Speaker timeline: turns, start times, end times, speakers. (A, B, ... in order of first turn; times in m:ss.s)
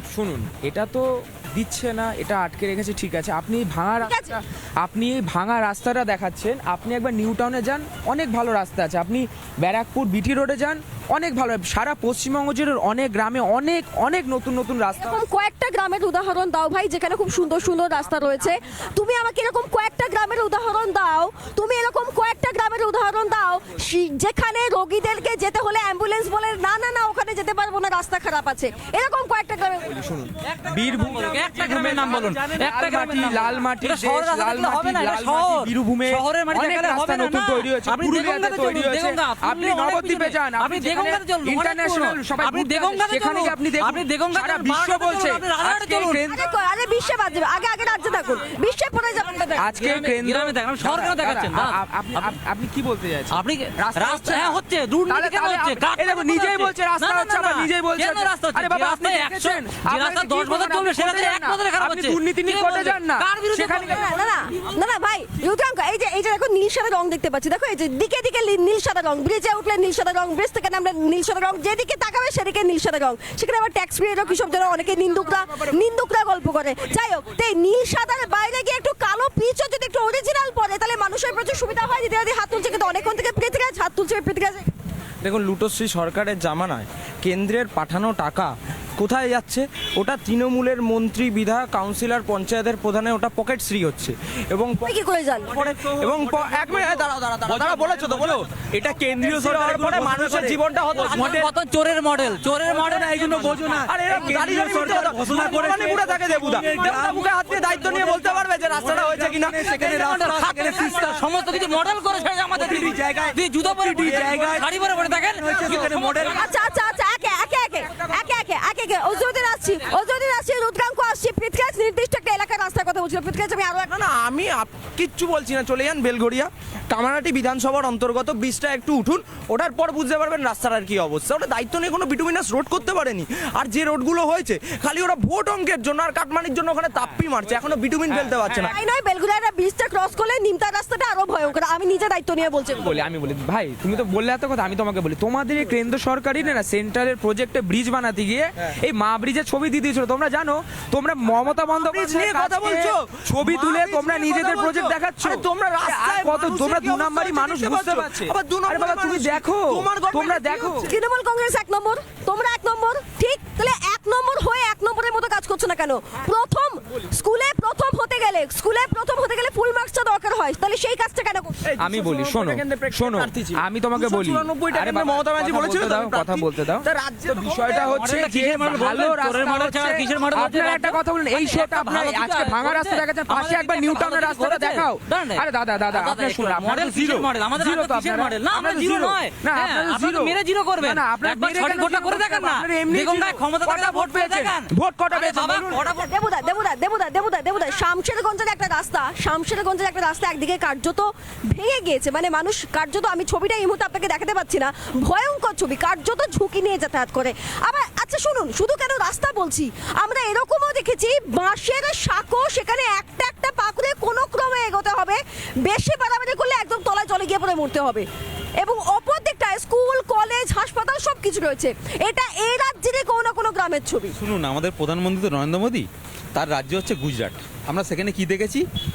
0:00.1-0:15.1 A
0:04.0-0:04.4 B
0:15.0-0:30.2 B
0:30.1-0:46.4 A
0:31.0-0:46.2 C
0:46.3-0:49.7 B
0:49.6-1:04.0 A
0:49.7-0:52.3 C
0:53.3-1:04.1 C
1:03.7-1:24.7 B
1:25.2-1:34.9 D
1:34.8-1:35.6 B
1:35.5-1:41.5 D
1:35.7-1:36.2 E
1:37.5-1:40.6 E
1:41.0-1:44.0 C
1:41.1-1:41.5 E
1:42.7-1:48.3 E
1:43.8-1:51.2 D
1:48.8-1:49.5 E
1:49.6-1:56.4 C
1:52.5-1:54.7 D
1:54.2-1:54.6 E
1:55.4-1:56.4 D
1:56.1-2:04.0 B
2:03.9-2:18.7 D
2:18.3-2:18.6 A
2:18.6-2:23.0 B
2:22.8-2:40.9 A
2:31.8-2:40.9 D
2:40.8-2:51.7 B
2:51.6-2:58.1 D
2:51.8-3:15.8 A
2:57.8-3:16.0 C
3:16.0-3:38.1 B
3:38.6-3:44.2 B
3:44.2-3:48.7 E